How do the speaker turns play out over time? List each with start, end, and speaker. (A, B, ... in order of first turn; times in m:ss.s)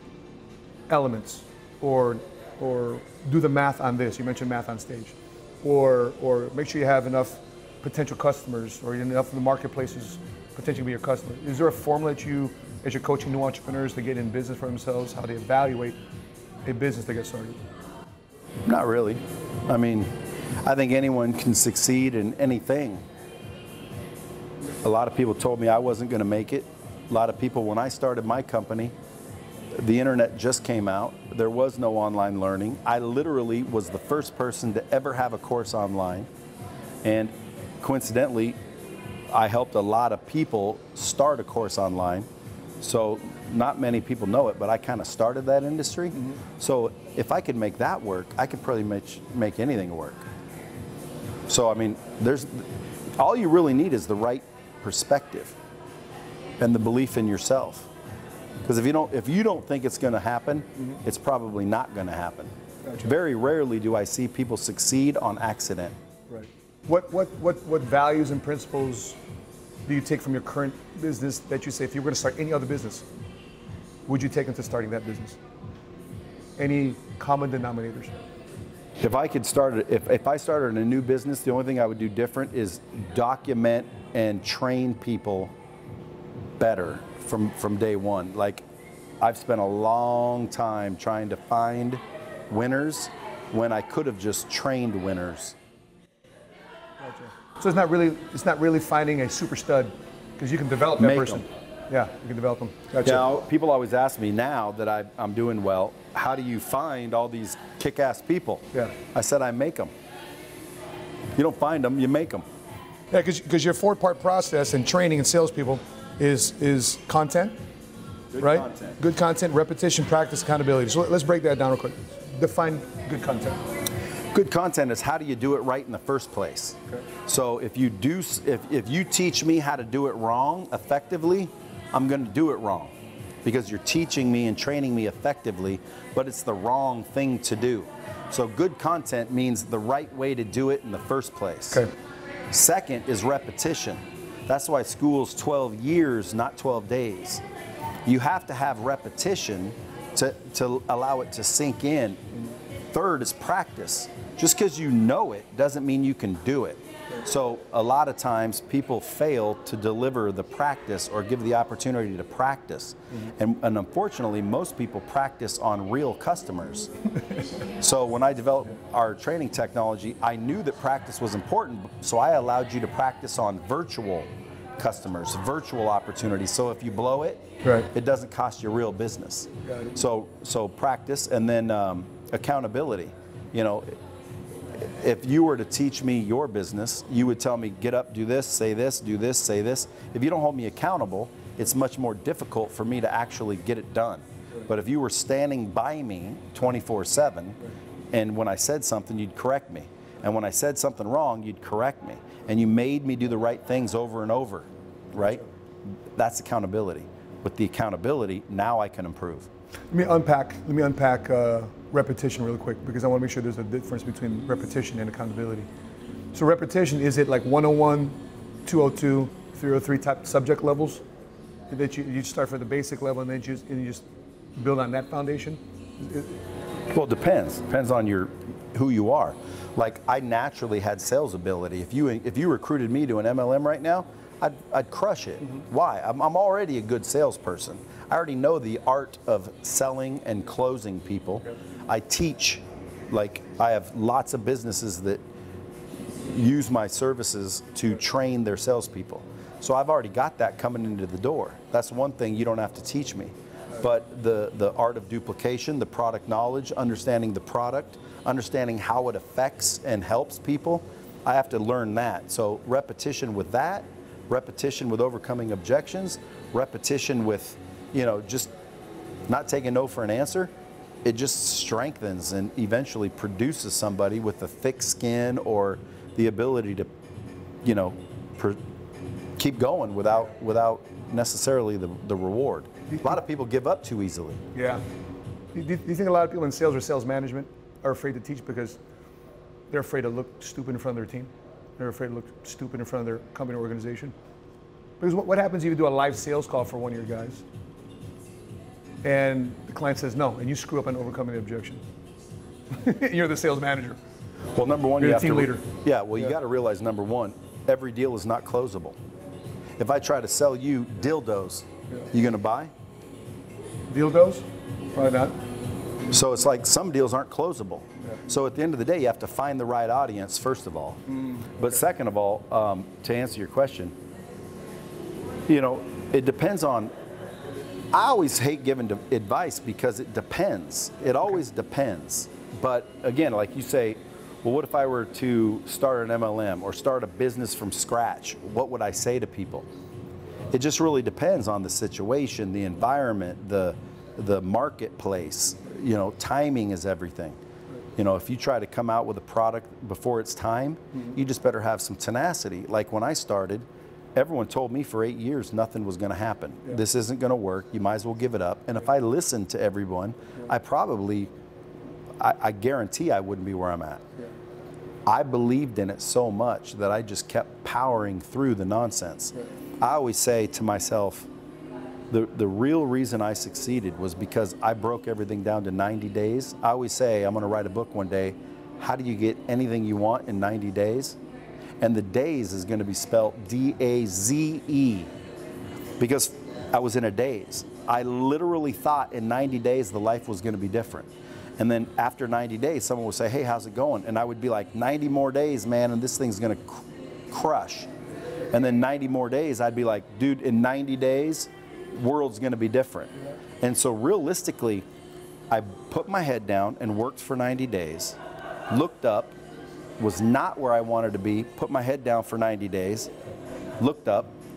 0:00.9-0:16.0 A
0:16.6-0:17.6 A
0:18.7-0:20.1 B
0:20.6-0:23.0 B
0:24.8-0:28.9 B
0:29.7-0:36.3 B
0:37.0-0:38.6 B
0:39.3-0:42.3 B
0:42.8-0:50.2 B
0:51.5-0:55.6 B
0:56.6-0:57.9 B
0:58.6-1:05.9 B
1:06.3-1:09.2 A
1:09.8-1:13.0 A
1:14.1-1:15.4 A
1:16.6-1:18.2 A
1:19.0-1:25.5 B
1:26.6-1:28.6 B
1:29.2-1:35.6 B
1:37.0-1:43.2 A
1:41.0-1:41.4 B
1:43.0-1:49.9 B
1:51.4-1:52.4 B
1:53.1-1:57.6 A
1:58.3-1:59.0 B
1:58.4-2:03.6 A
2:04.3-2:12.9 B
2:13.4-2:21.9 B
2:22.5-2:27.4 B
2:28.0-2:32.2 B
2:32.9-2:46.9 B
2:47.7-3:03.9 B
2:57.6-2:57.9 A
2:59.7-2:59.9 A
3:04.7-3:17.6 B
3:18.1-3:25.4 B
3:26.2-3:29.5 B
3:29.9-3:35.7 A
3:36.3-3:41.0 A
3:41.7-3:46.4 A
3:46.9-4:05.2 B
4:06.1-4:28.5 B
4:29.3-4:30.5 B
4:31.0-4:36.9 B
4:37.6-4:38.6 B
4:39.4-4:44.4 B
4:44.5-4:44.8 A
4:45.5-4:48.8 A
4:49.7-4:54.1 A
4:55.0-4:57.4 A
4:59.0-5:01.8 A
5:02.7-5:04.0 A
5:04.5-5:09.0 B
5:05.0-5:05.6 A
5:09.8-5:12.7 B
5:13.9-5:15.4 A
5:16.1-5:23.9 B
5:25.5-5:26.9 B
5:27.9-5:39.7 B
5:40.5-5:47.4 B
5:48.0-5:53.6 B
5:54.2-6:01.3 B
6:02.2-6:04.0 B
6:05.1-6:11.3 B
6:12.1-6:21.2 B
6:21.8-6:25.1 B
6:26.0-6:37.9 B
6:38.5-6:44.8 B
6:45.5-6:48.2 B
6:48.7-6:49.4 B
6:50.0-6:53.1 B
6:53.8-6:54.3 B